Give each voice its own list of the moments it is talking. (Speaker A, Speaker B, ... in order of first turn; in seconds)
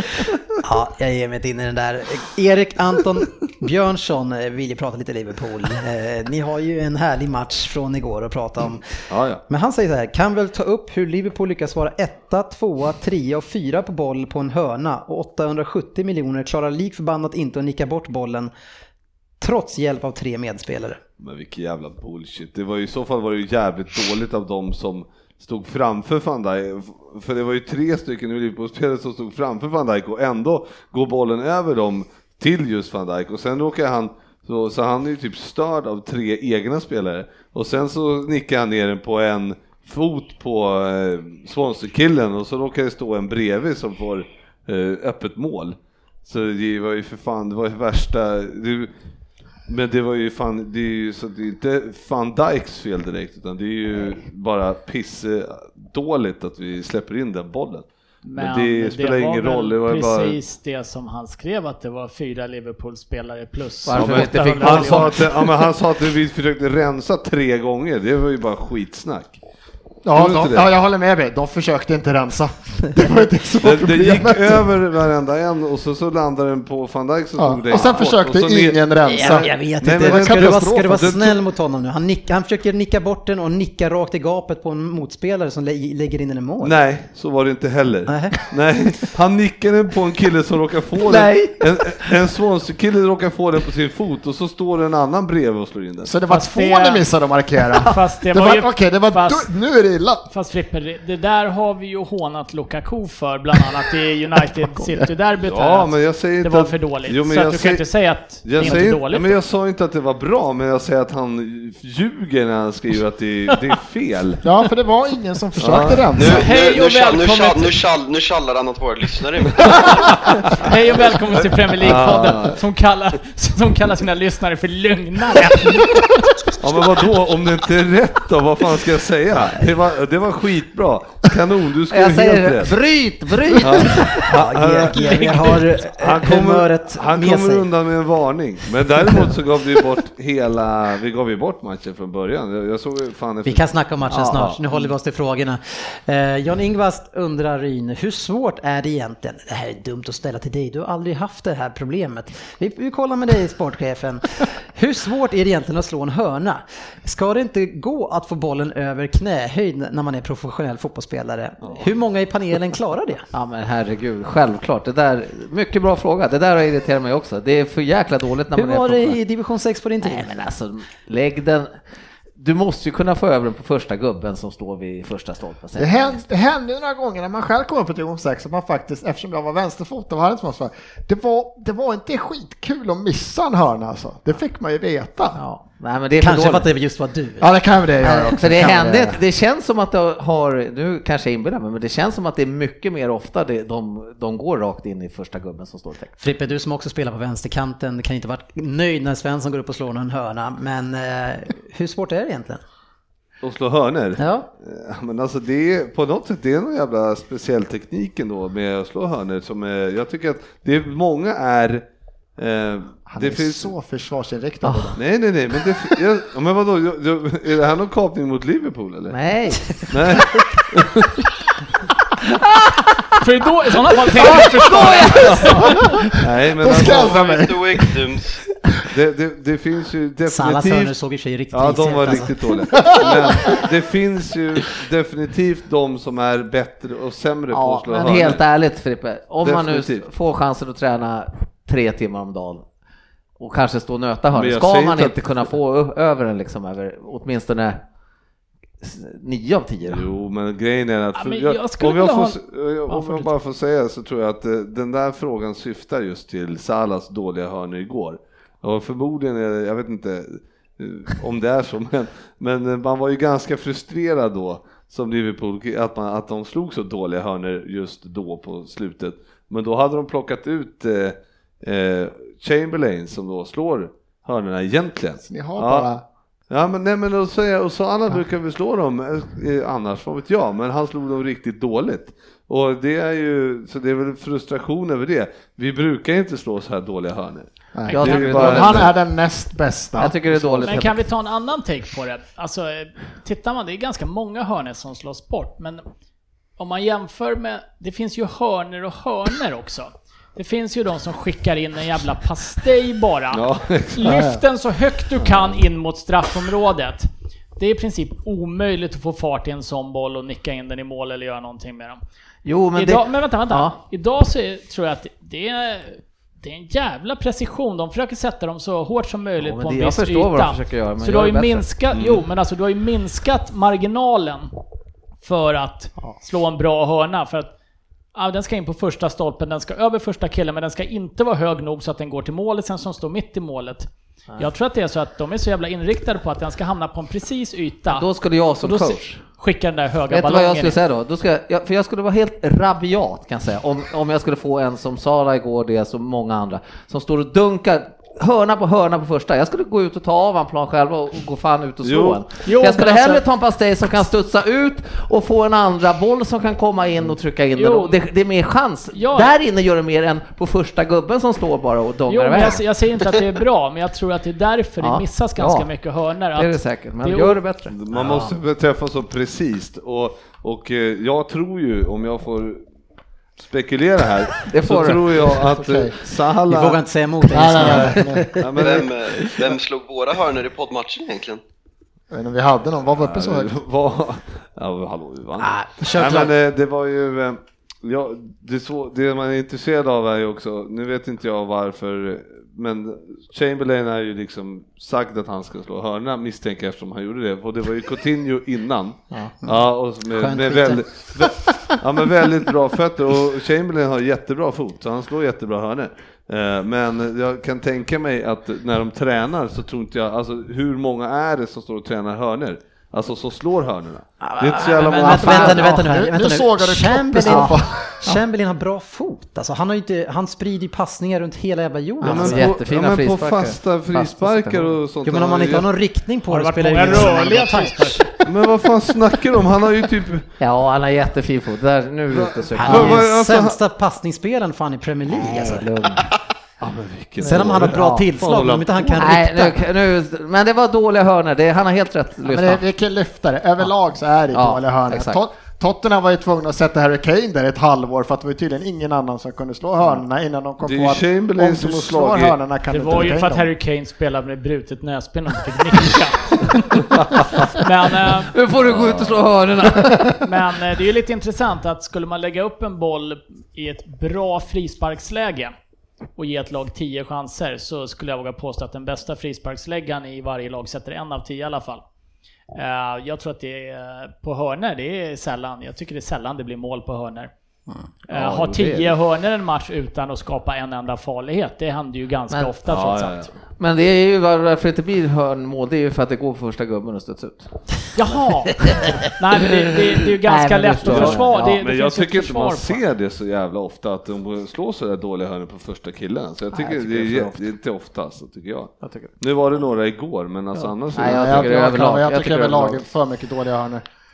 Speaker A: 0.6-8.9, 9.5-18.5, 19.4-21.0, 79.1-86.8, 88.1-88.5, 134.1-137.7, 143.4-163.3, 168.6-170.3, 186.2-187.5, 196.2-202.6, 204.2-204.5, 230.3-233.0, 367.9-368.3, 376.5-378.5, 385.4-386.3, 399.4-401.4, 414.2-422.5, 425.0-428.2, 432.6-435.7, 437.2-439.6
Speaker B: 9.1-9.4, 21.2-48.9, 49.7-60.4, 64.0-69.4, 70.1-70.7, 73.6-81.3, 86.6-96.1, 105.4-114.5, 115.6-116.1, 119.6-120.6, 121.8-122.6, 126.6-132.7, 133.6-144.6, 203.4-211.8, 212.4-213.7, 215.0-219.2, 219.8-221.3, 226.2-227.3, 228.9-230.9, 231.5-238.4, 239.4-240.1, 244.3-245.2, 249.8-275.9, 276.5-288.9, 303.3-304.2, 305.2-305.6, 321.9-322.2, 351.8-352.2, 367.7-372.6, 373.4-379.0, 383.0-415.7, 422.0-425.7, 428.2-430.3, 432.1-433.6, 436.6-439.0, 450.6-452.4, 457.0-457.5, 458.7-459.2, 482.7-483.3, 490.8-501.8
Speaker C: 58.2-65.2, 96.3-97.1, 97.8-99.5, 100.3-109.4, 116.3-117.8, 120.5-126.2, 223.2-226.0, 251.2-253.3, 287.9-288.6, 290.7-295.8, 296.6-312.0, 312.8-324.5, 325.2-327.5, 328.1-338.1, 338.6-340.8, 352.4-353.2, 357.6-358.0, 358.9-359.3, 362.1-367.4, 414.6-415.3, 426.3-428.0, 452.7-457.0, 457.5-458.3, 460.2-465.5, 466.2-471.8, 472.5-477.3, 478.1-483.3, 487.9-488.6, 489.1-492.8
Speaker D: 63.9-65.3, 91.0-92.1, 131.9-134.3, 163.3-169.2, 170.0-171.8, 172.4-176.2, 185.3-186.7, 188.0-196.1, 214.6-215.0, 219.1-219.8, 224.2-225.8, 237.5-242.7, 243.4-247.8, 248.8-250.1, 287.9-288.9, 290.0-291.1, 312.4-313.8, 319.4-321.7, 337.9-339.2, 340.1-362.6, 364.8-365.7, 366.4-367.8, 374.5-375.6, 414.7-415.8, 422.0-424.9, 430.4-433.1, 435.2-436.1, 437.2-438.1, 438.9-442.6, 444.3-445.2, 458.3-460.2, 478.1-478.9, 482.3-482.6, 483.6-487.8, 488.6-491.6, 496.5-497.5, 498.8-499.2, 500.5-502.8
Speaker E: 70.0-74.7, 77.4-81.3, 96.0-100.3, 104.6-105.1, 114.4-116.5, 175.8-185.4, 187.4-189.2, 213.1-215.0, 226.6-227.9, 232.7-233.6, 275.2-276.0, 287.7-290.8, 304.1-304.4, 375.6-375.9, 377.3-378.5, 382.1-383.5, 415.7-418.1, 442.3-453.5, 501.0-503.9
Speaker F: 116.2-119.8, 226.7-228.4, 378.6-381.4